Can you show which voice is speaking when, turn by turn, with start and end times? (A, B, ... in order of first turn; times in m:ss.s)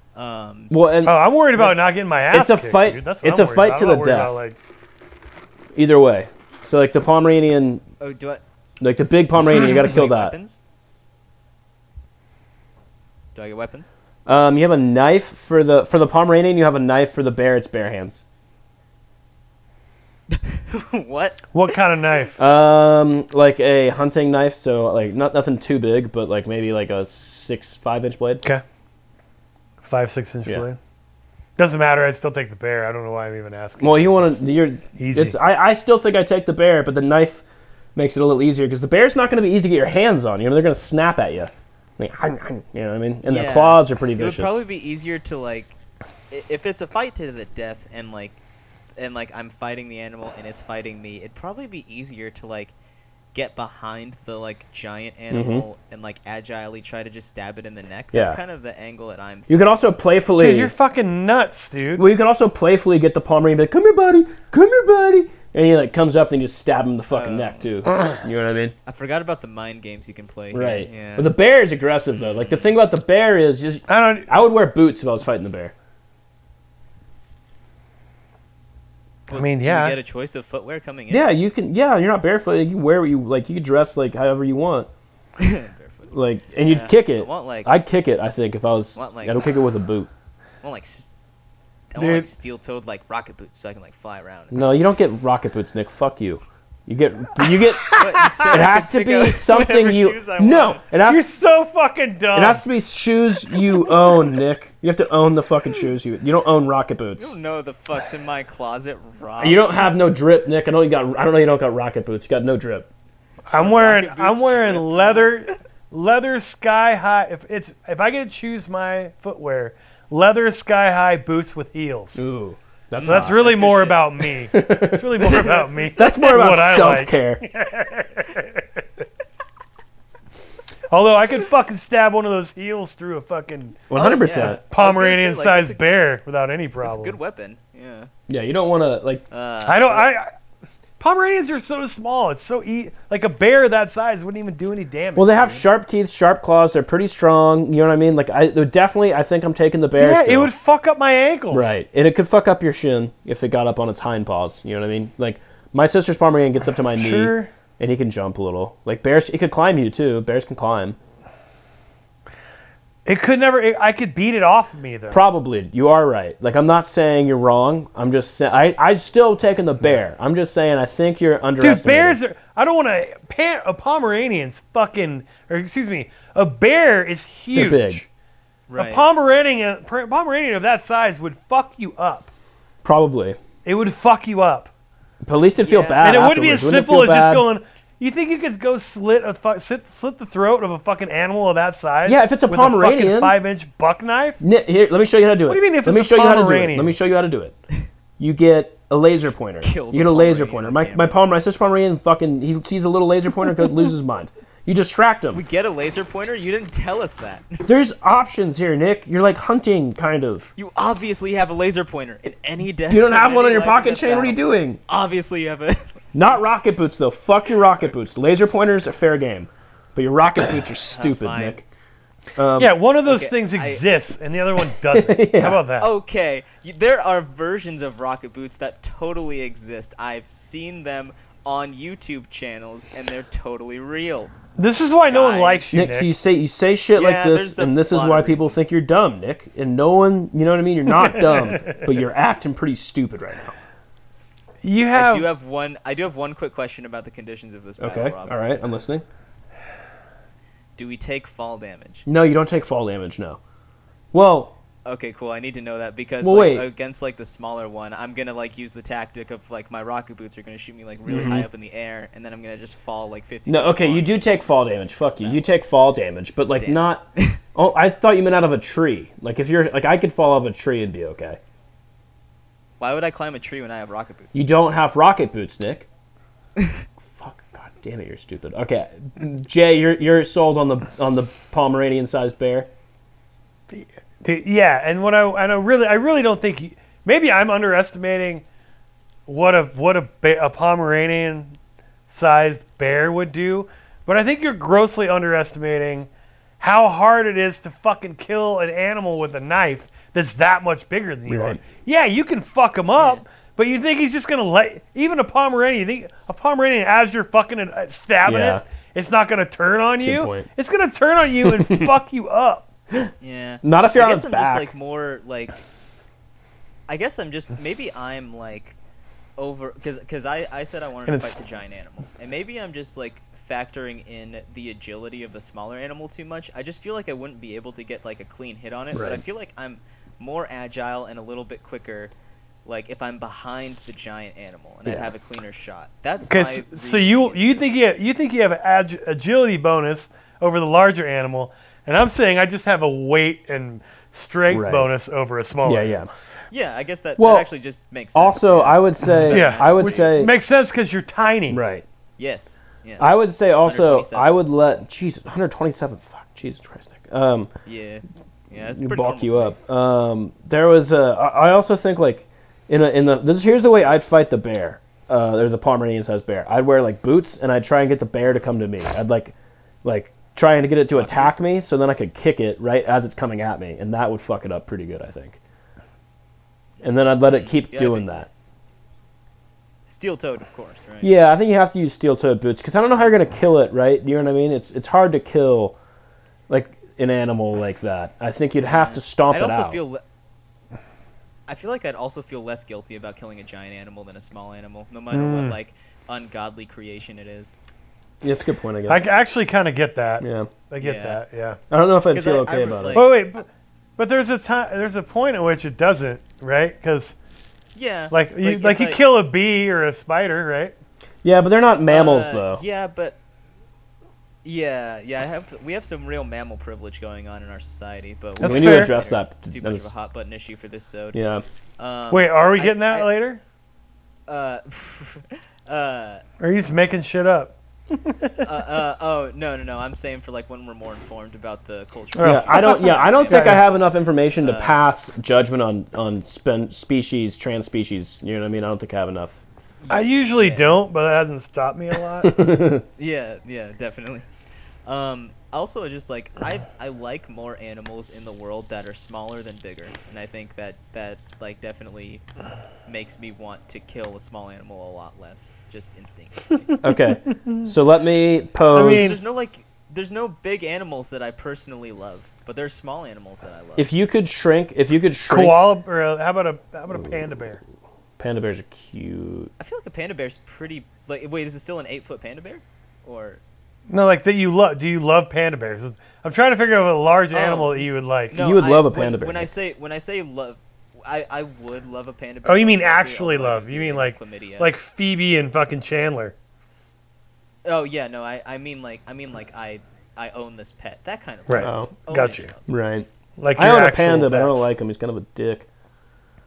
0:00.1-0:00.7 A
0:00.7-0:04.4 B
0:01.0-0:04.6 C
0:05.7-0:07.8 B
0:08.0-0:08.4 A
0:08.8-0:10.3 B
0:09.5-0:10.6 A
0:13.3-0:13.9 A
0:14.2-0:18.2 B
0:20.3-0:21.5 A
0:21.5-0:22.4 C
0:22.4-0:28.4 B
0:29.8-0:30.8 C
0:31.6-0:34.4 C
0:33.8-0:37.4 B
0:35.0-0:35.4 C
0:37.9-0:44.6 B
0:43.2-0:45.8 A
0:46.3-0:48.4 A
0:49.0-0:52.7 A
0:53.3-0:59.8 A
0:55.3-0:55.7 B
0:58.1-0:58.4 B
0:59.5-1:00.7 B
1:00.4-1:02.0 C
1:02.0-1:08.7 B
1:07.1-1:07.7 A
1:08.8-1:11.3 A
1:10.5-1:15.7 B
1:12.2-1:12.7 A
1:13.9-1:14.3 C
1:19.3-1:21.3 A
1:19.3-1:20.0 C
1:21.1-1:24.9 B
1:25.4-1:27.8 A
1:26.1-1:30.1 B
1:29.0-1:29.4 A
1:30.6-1:31.2 A
1:31.9-1:34.6 A
1:32.0-1:32.3 C
1:34.5-1:41.3 B
1:37.9-1:38.4 C
1:37.9-1:40.8 A
1:41.1-1:42.6 C
1:42.3-1:47.3 B
1:47.2-1:49.8 A
1:49.4-1:52.9 B
1:53.5-2:02.2 C
1:53.5-1:55.5 A
2:02.1-2:03.4 B
2:02.9-2:04.2 A
2:03.0-2:08.8 C
2:04.5-2:05.3 B
2:05.3-2:06.1 A
2:06.0-2:07.4 B
2:10.9-2:17.2 C
2:13.9-2:14.6 B
2:13.9-2:15.8 A
2:16.8-2:18.1 A
2:18.3-2:19.2 B
2:19.3-2:20.0 A
2:19.6-2:20.3 C
2:21.0-2:25.6 C
2:25.2-2:30.5 B
2:30.0-2:31.7 C
2:31.5-2:41.0 B
2:36.9-2:37.5 C
2:43.0-2:45.2 C
2:45.1-2:52.2 B
2:51.6-2:58.0 C
2:57.5-2:58.0 B
2:58.7-2:59.0 A
2:58.7-3:02.3 C
3:02.8-3:03.4 B
3:03.6-3:04.7 C
3:05.2-3:07.4 B
3:05.6-3:06.3 A
3:06.0-3:14.4 C
3:12.0-3:13.4 B
3:14.4-3:17.6 B
3:15.5-3:16.9 C
3:18.2-3:25.4 B
3:19.6-3:21.2 A
3:25.3-3:27.6 A
3:27.6-3:30.5 B
3:30.6-3:36.4 A
3:32.9-3:34.8 B
3:36.1-3:41.6 B
3:40.9-3:41.6 A
3:42.4-3:42.8 B
3:42.6-3:45.9 C
3:43.0-3:43.8 A
3:44.9-3:45.6 B
3:45.8-3:54.3 A
3:54.6-3:56.1 C
3:55.1-3:55.8 A
3:55.7-4:03.5 B
3:56.9-3:58.6 A
4:01.0-4:01.8 C
4:04.6-4:05.3 C
4:04.9-4:08.4 A
4:07.8-4:09.0 B
4:10.8-4:12.0 A
4:12.0-4:13.4 B
4:14.1-4:14.5 B
4:14.8-4:24.4 A
4:16.2-4:16.7 B
4:21.1-4:21.5 B
4:23.5-4:31.4 B
4:25.2-4:25.4 A
4:26.6-4:27.4 A
4:32.8-4:34.4 A
4:34.3-4:35.9 B
4:36.6-4:36.8 A
4:37.0-4:42.7 B
4:43.7-4:48.4 C
4:49.3-4:51.6 C
4:52.1-4:56.1 C
4:56.6-5:12.7 C
5:01.3-5:01.6 B
5:03.0-5:03.2 A
5:08.2-5:08.6 B
5:10.0-5:10.5 B
5:11.4-5:11.9 B
5:13.2-5:15.6 A
5:13.6-5:14.7 B
5:16.9-5:18.8 A
5:19.4-5:32.1 A
5:21.0-5:21.4 C
5:28.9-5:29.2 B
5:32.6-5:37.7 A
5:34.8-5:35.1 B
5:36.3-5:46.0 C
5:44.5-5:44.9 B
5:45.6-5:46.1 B
5:46.5-5:50.2 A
5:47.2-5:47.5 B
5:48.1-5:50.3 B
5:49.3-5:51.6 C
5:51.5-5:51.8 B
5:52.2-5:54.3 A
5:53.0-5:57.5 B
5:57.6-5:59.5 A
5:58.7-6:15.4 B
6:10.9-6:11.4 A
6:16.8-6:18.3 B
6:17.2-6:18.1 A
6:19.9-6:21.1 A
6:21.0-6:25.8 B
6:26.5-6:29.8 B
6:28.6-6:30.0 A
6:31.5-6:37.5 A
6:35.1-6:35.6 C
6:38.2-6:39.1 B
6:38.9-6:41.6 C
6:40.2-6:40.5 B
6:40.8-6:41.2 A
6:41.7-6:43.0 B
6:42.1-6:43.4 A
6:42.9-6:43.4 C
6:44.0-6:47.1 C
6:47.7-6:49.0 A
6:48.1-6:50.8 C
6:51.2-6:52.6 B
6:51.9-6:53.2 A
6:54.4-7:01.2 A
6:58.4-6:59.9 B
6:58.4-6:58.9 C
7:01.1-7:01.4 B
7:01.8-7:03.1 A
7:02.1-7:03.4 C
7:04.3-7:06.2 A
7:06.4-7:08.5 C
7:08.4-7:14.8 A
7:12.1-7:13.6 C
7:12.2-7:19.4 B
7:19.8-7:20.8 A
7:19.9-7:22.4 C
7:22.2-7:22.8 B
7:23.0-7:24.2 A
7:24.8-7:32.2 A
7:32.8-7:36.7 A
7:36.8-7:39.2 B
7:37.3-7:37.7 C
7:38.7-7:39.2 C
7:38.8-7:43.9 A
7:43.8-7:45.6 B
7:45.3-7:47.6 C
7:48.2-7:49.5 B
7:49.6-7:53.4 A
7:53.9-7:58.3 C
7:57.3-8:04.7 A
7:58.3-7:59.5 B
8:02.4-8:06.3 C
8:07.6-8:12.7 A
8:11.5-8:12.5 C
8:11.6-8:11.9 B
8:12.7-8:15.6 B
8:13.4-8:14.7 C